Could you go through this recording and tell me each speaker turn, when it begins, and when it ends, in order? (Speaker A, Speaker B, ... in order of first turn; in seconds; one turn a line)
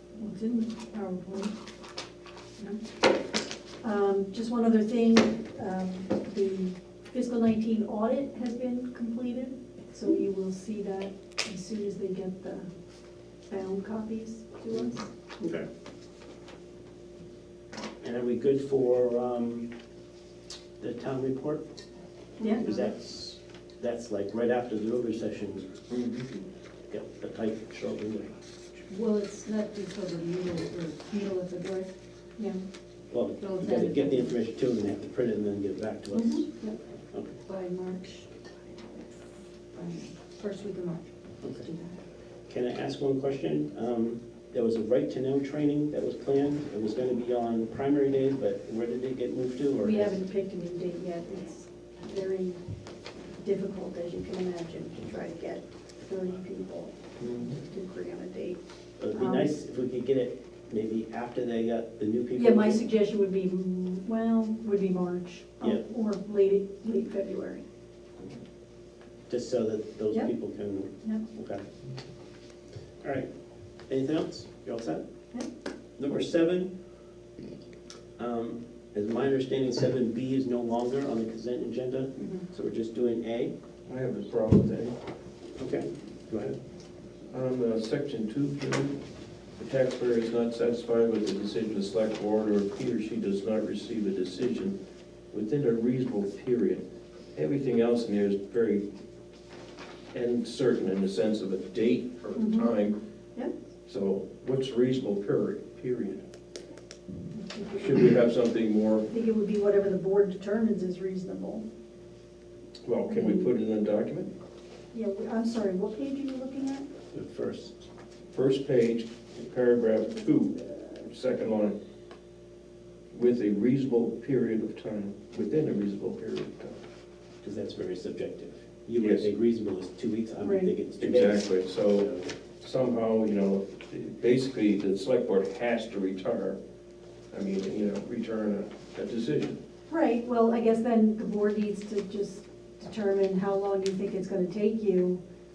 Speaker A: 0.1-1.5
Speaker A: 3.8-12.7
Speaker A: 13.5-15.1
Speaker B: 14.7-15.7
Speaker B: 18.0-19.7
Speaker B: 20.8-21.6
Speaker C: 22.4-22.8
Speaker B: 22.6-25.8
Speaker D: 25.9-26.3
Speaker B: 26.9-28.4
Speaker C: 28.9-31.9
Speaker B: 33.1-36.4
Speaker C: 33.4-34.4
Speaker A: 36.1-36.7
Speaker C: 37.5-38.4
Speaker C: 39.7-42.0
Speaker B: 41.4-41.7
Speaker B: 42.5-50.2
Speaker A: 49.8-52.6
Speaker A: 53.4-58.6
Speaker D: 57.2-57.6
Speaker B: 59.0-62.8
Speaker A: 59.1-59.5
Speaker A: 62.4-67.6
Speaker B: 69.3-71.7
Speaker B: 73.0-73.3
Speaker B: 73.9-75.0
Speaker B: 76.0-76.7
Speaker B: 78.2-83.5
Speaker D: 83.9-85.0
Speaker B: 85.6-86.6
Speaker D: 87.3-89.0
Speaker D: 89.6-94.8
Speaker D: 95.3-96.8
Speaker D: 97.3-98.8
Speaker D: 100.1-103.0
Speaker A: 102.4-102.7
Speaker D: 103.9-106.2
Speaker A: 107.3-108.1
Speaker D: 107.7-109.1
Speaker A: 109.1-111.7
Speaker D: 112.8-114.3
Speaker A: 113.1-113.5
Speaker A: 114.9-116.9
Speaker B: 117.1-117.7
Speaker D: 118.3-121.8
Speaker D: 123.1-126.8
Speaker B: 127.4-132.3
Speaker D: 129.0-129.3
Speaker A: 130.4-130.7
Speaker D: 131.0-136.6
Speaker D: 137.3-139.6
Speaker A: 139.9-145.2